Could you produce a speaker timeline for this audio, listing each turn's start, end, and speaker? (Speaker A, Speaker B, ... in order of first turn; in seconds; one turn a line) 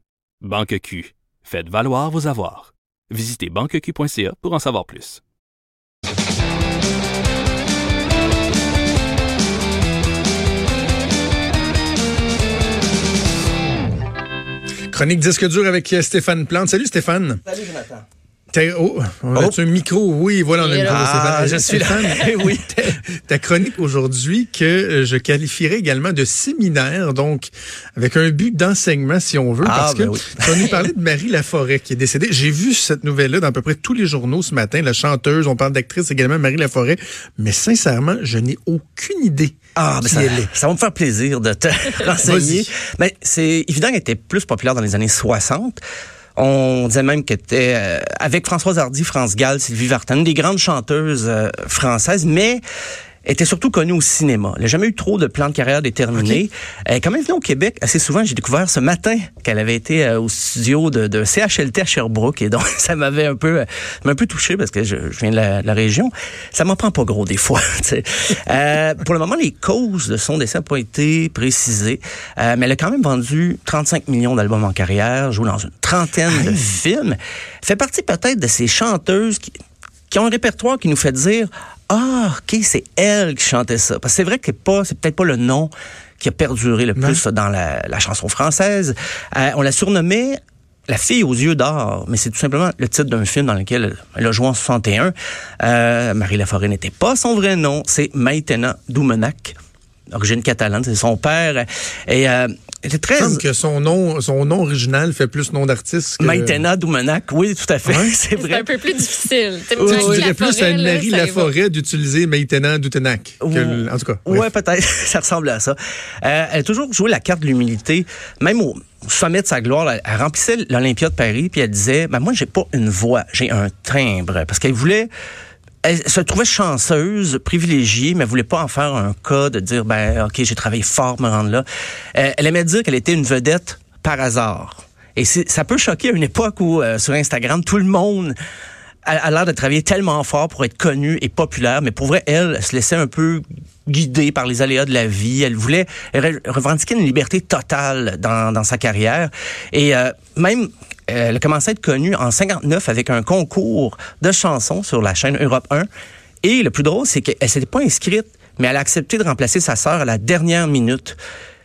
Speaker A: 0.4-5.2
Speaker B: 14.9-17.4
Speaker C: 17.4-18.0
Speaker B: 18.5-40.5
Speaker D: 20.6-20.9
Speaker C: 20.8-22.7
Speaker C: 29.6-30.8
Speaker C: 39.8-45.8
Speaker B: 42.2-42.7
Speaker C: 46.4-52.6
Speaker C: 53.2-79.5
Speaker B: 76.3-76.6
Speaker C: 80.1-99.5
Speaker C: 100.1-103.4
Speaker B: 103.2-106.6
Speaker C: 106.2-108.7
Speaker B: 107.8-108.1
Speaker D: 108.3-111.5
Speaker C: 109.8-110.2
Speaker B: 109.8-114.5
Speaker C: 113.4-125.1
Speaker C: 125.8-138.3
Speaker C: 139.1-155.9
Speaker C: 156.4-161.2